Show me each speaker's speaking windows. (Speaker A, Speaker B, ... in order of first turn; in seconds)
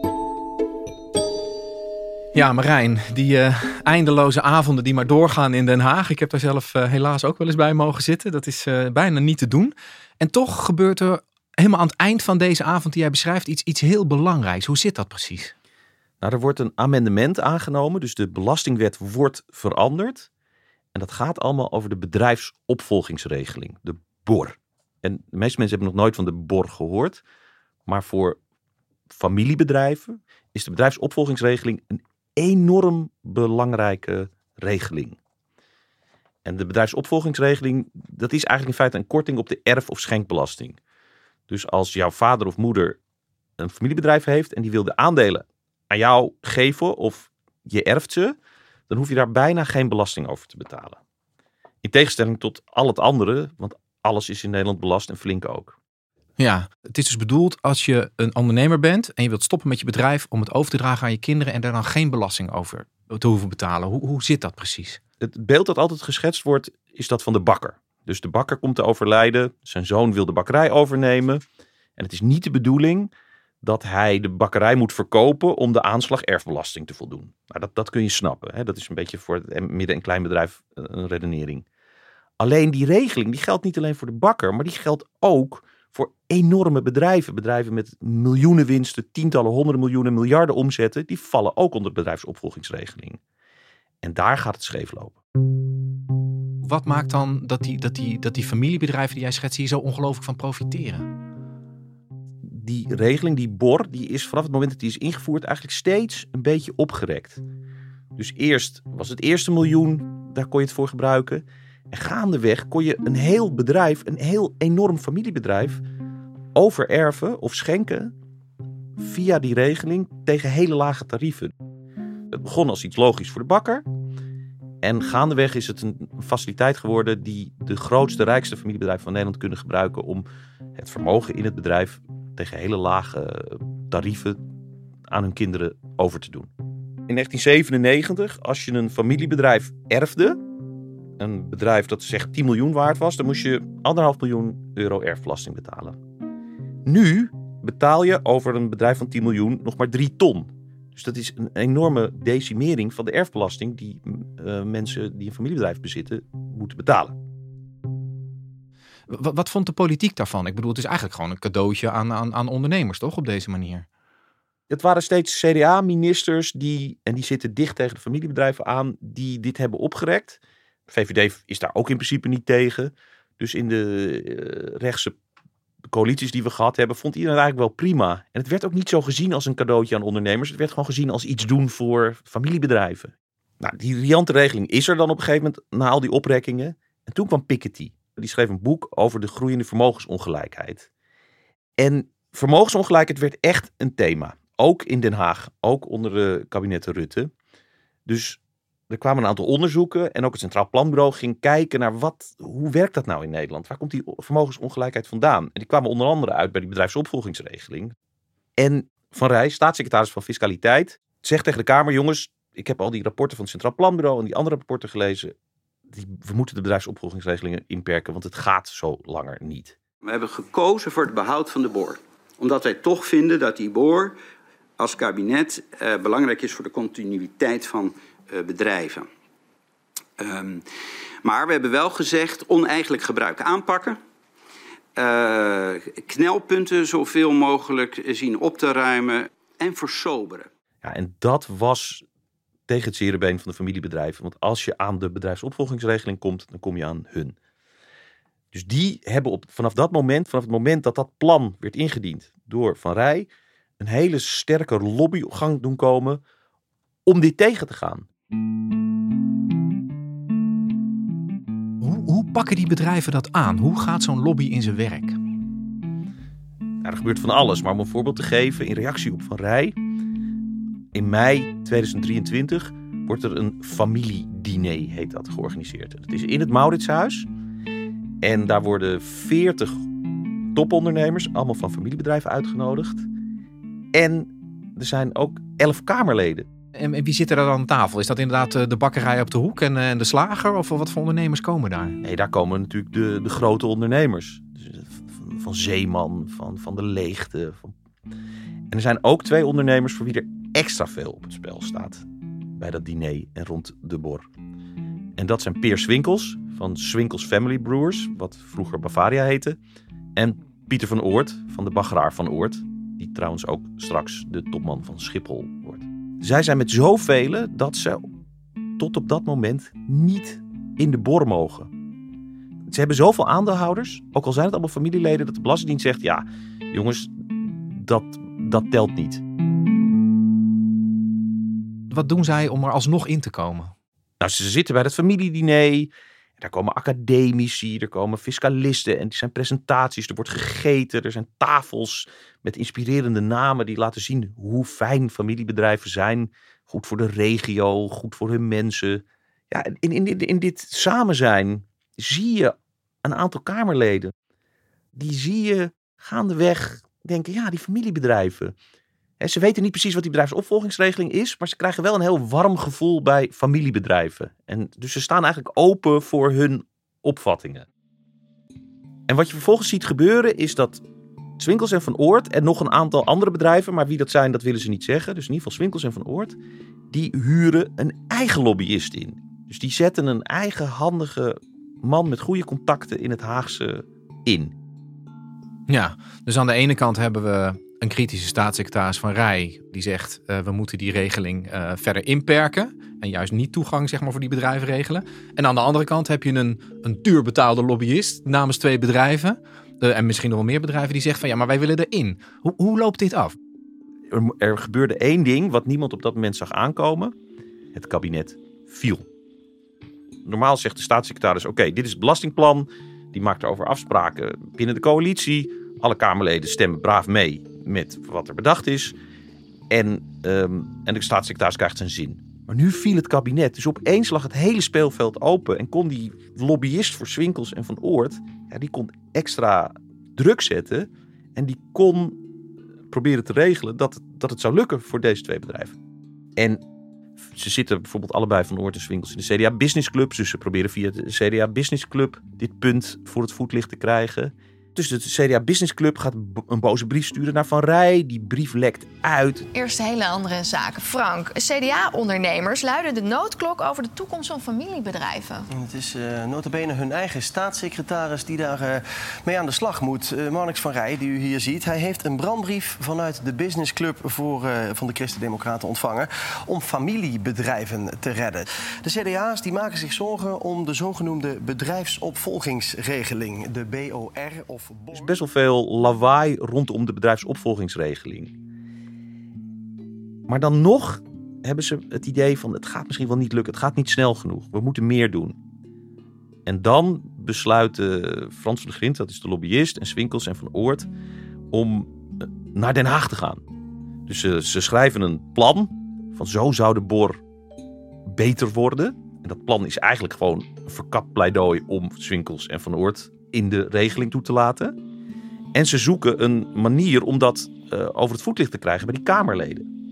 Speaker A: 2.3-15.5, 56.4-65.0, 96.6-101.1, 159.1-163.9, 261.8-265.2, 286.8-292.0, 331.9-333.7, 385.7-403.4
Speaker B: 16.2-20.3, 20.9-27.2, 27.9-28.4, 29.1-35.2, 36.5-40.8, 41.5-43.0, 43.6-48.4, 48.9-51.0, 51.8-55.8, 65.2-71.4, 72.0-81.7, 82.4-93.2, 94.0-95.2, 102.5-107.4, 108.2-115.8, 116.5-118.1, 119.0-121.5, 122.3-123.8, 124.8-134.4, 135.1-136.5, 137.1-140.4, 141.2-146.0, 146.9-157.2, 164.7-175.2, 175.9-190.9, 191.8-197.3, 198.1-207.9, 208.6-215.3, 215.9-219.8, 240.8-242.0, 242.7-247.3, 248.5-253.3, 253.8-256.2, 257.1-258.1, 266.8-269.8, 270.9-277.3, 278.2-279.8, 280.5-283.1, 283.9-286.5, 292.0-297.7, 298.7-302.1, 302.6-304.3, 305.2-309.6, 310.2-318.1, 318.8-321.7, 322.7-329.2, 334.2-354.1, 354.9-358.6, 359.2-367.7, 369.1-370.8, 371.4-376.4, 376.9-384.5, 404.1-407.1, 407.8-409.1, 410.2-419.0, 419.7-432.2, 432.9-435.8, 436.4-436.6, 437.2-449.5, 474.9-478.3, 480.3-485.4, 486.5-490.9, 491.5-493.4, 494.1-497.2, 498.1-504.8, 505.5-509.7
Speaker C: 220.0-224.2, 224.8-229.1, 230.2-230.6, 231.2-234.0, 235.0-240.5
Speaker D: 449.5-455.5
Speaker E: 455.6-475.1